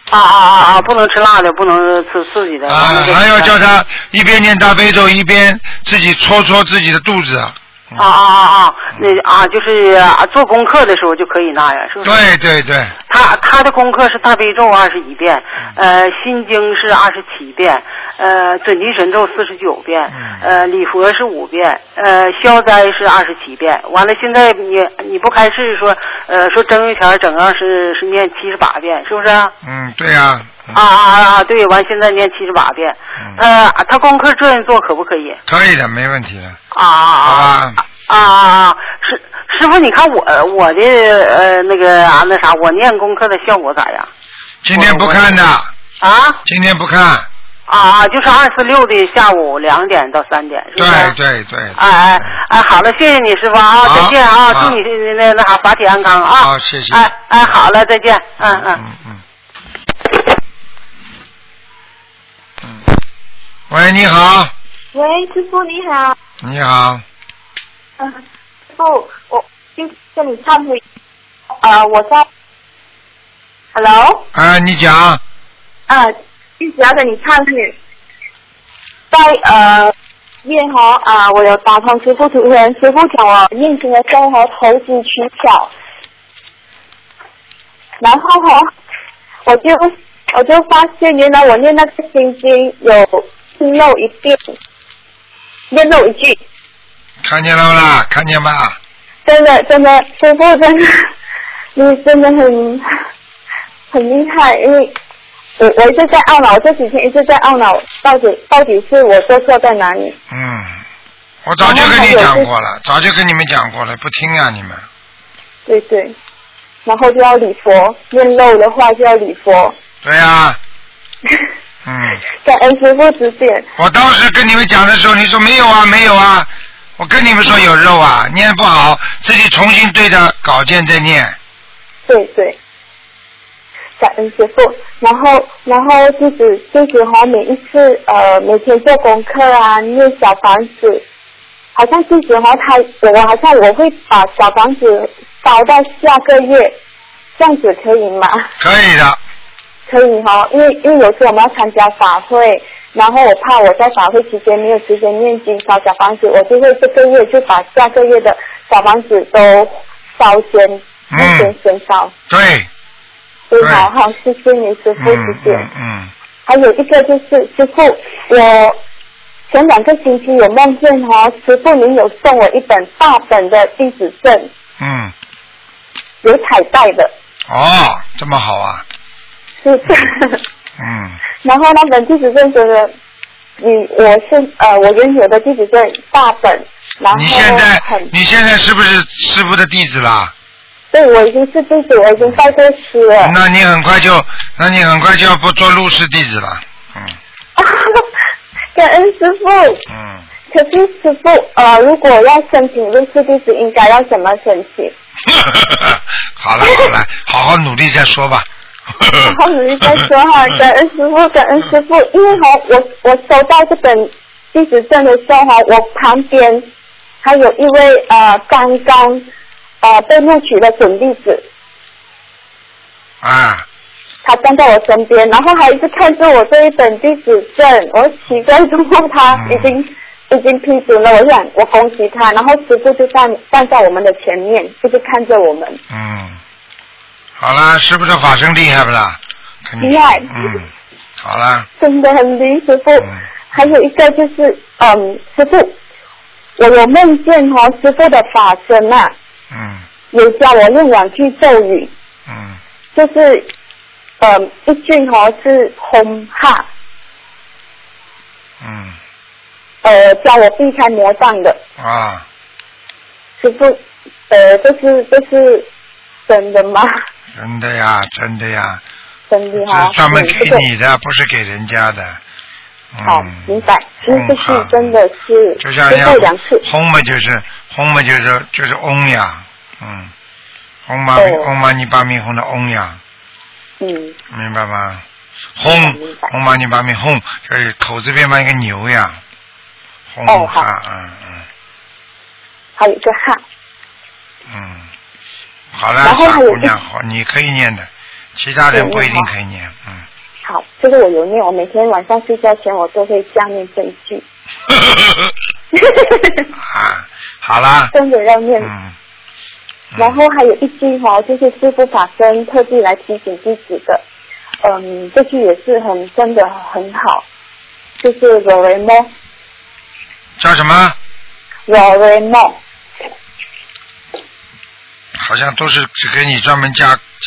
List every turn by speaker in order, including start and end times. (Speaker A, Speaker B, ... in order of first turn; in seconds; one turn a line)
Speaker A: 0.1-3.6
Speaker B: 2.7-8.1
Speaker A: 8.0-12.3
Speaker B: 12.0-12.9
Speaker A: 13.1-29.5
Speaker B: 20.1-20.4
Speaker B: 29.6-30.8
Speaker A: 30.7-35.4
Speaker B: 35.5-36.6
Speaker A: 36.7-44.1
Speaker B: 37.2-37.8
Speaker B: 44.6-45.7
Speaker A: 44.7-45.4
Speaker A: 46.0-46.4
Speaker B: 46.5-47.3
Speaker A: 47.7-51.2
Speaker B: 50.8-52.3
Speaker A: 51.8-58.8
Speaker B: 53.8-54.8
Speaker B: 56.4-57.1
Speaker B: 58.4-59.2
Speaker B: 63.7-64.5
Speaker C: 65.0-66.1
Speaker B: 66.4-67.0
Speaker C: 68.7-70.8
Speaker C: 71.6-72.3
Speaker C: 73.8-74.2
Speaker B: 74.3-75.2
Speaker C: 75.9-77.8
Speaker C: 79.1-79.9
Speaker C: 80.4-85.7
Speaker C: 88.0-88.7
Speaker C: 89.5-94.5
Speaker C: 95.7-96.4
Speaker B: 97.2-98.8
Speaker C: 99.2-101.1
Speaker C: 101.8-102.9
Speaker C: 103.9-105.0
Speaker C: 105.6-110.2
Speaker B: 110.3-110.8
Speaker B: 111.5-114.9
Speaker C: 111.6-112.5
Speaker C: 115.7-116.2
Speaker C: 116.8-119.8
Speaker B: 120.0-120.6
Speaker B: 121.8-122.2
Speaker C: 122.4-123.7
Speaker B: 123.8-131.4
Speaker C: 132.1-132.6
Speaker C: 134.0-141.0
Speaker C: 141.7-146.8
Speaker C: 147.4-148.5
Speaker B: 148.6-149.2
Speaker C: 149.9-162.1
Speaker B: 161.1-161.5
Speaker B: 162.3-162.7
Speaker C: 163.5-165.7
Speaker B: 163.6-163.9
Speaker B: 165.0-166.1
Speaker C: 166.5-168.8
Speaker C: 169.5-174.5
Speaker B: 174.8-175.1
Speaker C: 176.2-177.1
Speaker B: 177.5-178.8
Speaker C: 179.6-180.4
Speaker B: 180.8-181.2
Speaker C: 181.4-182.9
Speaker C: 183.6-188.1
Speaker B: 187.1-190.3
Speaker C: 190.9-193.4
Speaker B: 193.2-197.2
Speaker C: 197.6-198.1
Speaker C: 198.8-199.8
Speaker B: 199.9-200.3
Speaker C: 200.5-204.9
Speaker B: 205.3-209.3
Speaker C: 209.2-216.7
Speaker C: 217.2-219.3
Speaker C: 219.8-221.5
Speaker B: 223.2-223.7
Speaker C: 224.2-235.8
Speaker B: 229.3-229.7
Speaker B: 235.9-236.4
Speaker B: 237.4-240.7
Speaker C: 239.8-240.6
Speaker B: 241.2-241.7
Speaker C: 241.8-245.8
Speaker B: 243.0-243.7
Speaker C: 246.6-249.1
Speaker B: 249.5-249.8
Speaker C: 250.1-251.9
Speaker B: 252.3-252.6
Speaker C: 252.9-253.5
Speaker C: 254.2-256.7
Speaker B: 258.6-259.0
Speaker C: 259.8-261.6
Speaker B: 261.8-262.2
Speaker C: 263.4-265.7
Speaker C: 266.3-266.9
Speaker B: 267.4-268.8
Speaker C: 269.3-270.7
Speaker B: 269.6-272.2
Speaker B: 272.9-273.5
Speaker C: 273.0-276.6
Speaker B: 274.0-274.9
Speaker B: 275.6-280.1
Speaker B: 280.9-283.0
Speaker C: 281.1-281.5
Speaker C: 283.8-284.2
Speaker B: 284.3-285.0
Speaker B: 285.6-289.2
Speaker C: 285.6-286.3
Speaker B: 290.1-291.5
Speaker C: 290.3-290.7
Speaker C: 292.8-293.4
Speaker B: 294.5-294.9
Speaker B: 295.7-300.0
Speaker C: 296.0-296.8
Speaker C: 298.7-299.3
Speaker C: 300.4-304.2
Speaker B: 304.8-305.3
Speaker C: 305.7-306.5
Speaker B: 306.6-307.9
Speaker C: 307.9-308.7
Speaker B: 308.6-308.9
Speaker B: 309.9-310.2
Speaker C: 310.0-314.0
Speaker C: 314.6-317.3
Speaker C: 318.0-319.1
Speaker B: 320.4-321.0
Speaker C: 321.7-322.6
Speaker B: 325.2-327.0